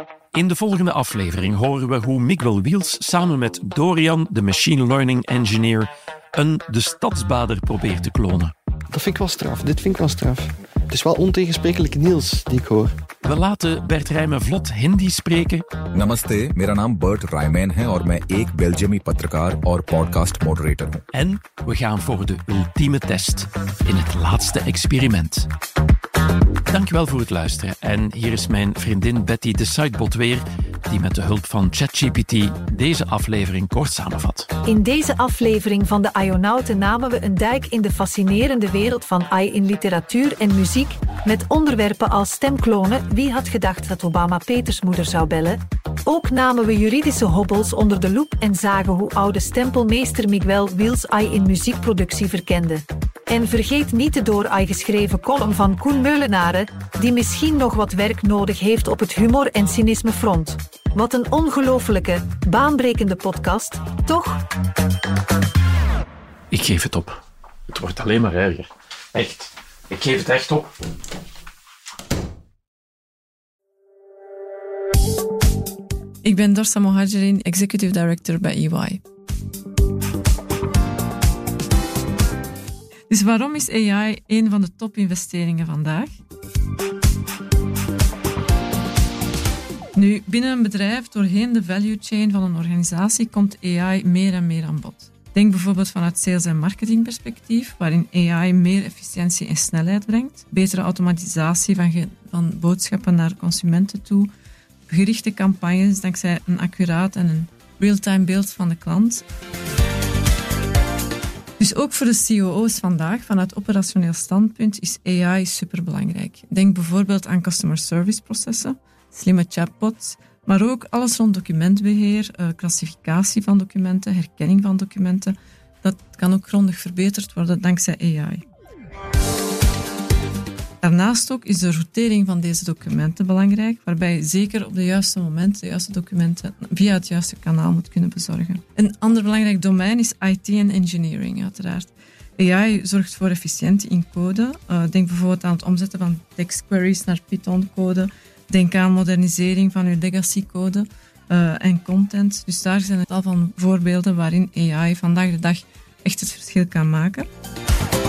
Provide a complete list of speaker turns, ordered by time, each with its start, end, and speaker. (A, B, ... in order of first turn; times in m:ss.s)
0:00.3-0:08.5 A
0:08.9-0:12.9 B
0:13.2-0:15.6 A
0:15.9-0:21.0 C
0:21.1-0:25.5 A
0:26.7-0:34.5 A
0:34.6-1:04.4 D
1:06.5-1:10.7 A
1:16.2-1:19.0 E
1:23.1-1:26.2 E
1:30.0-1:44.3 E
1:44.9-1:49.2 E
1:51.6-2:08.4 E
2:10.8-2:37.3 E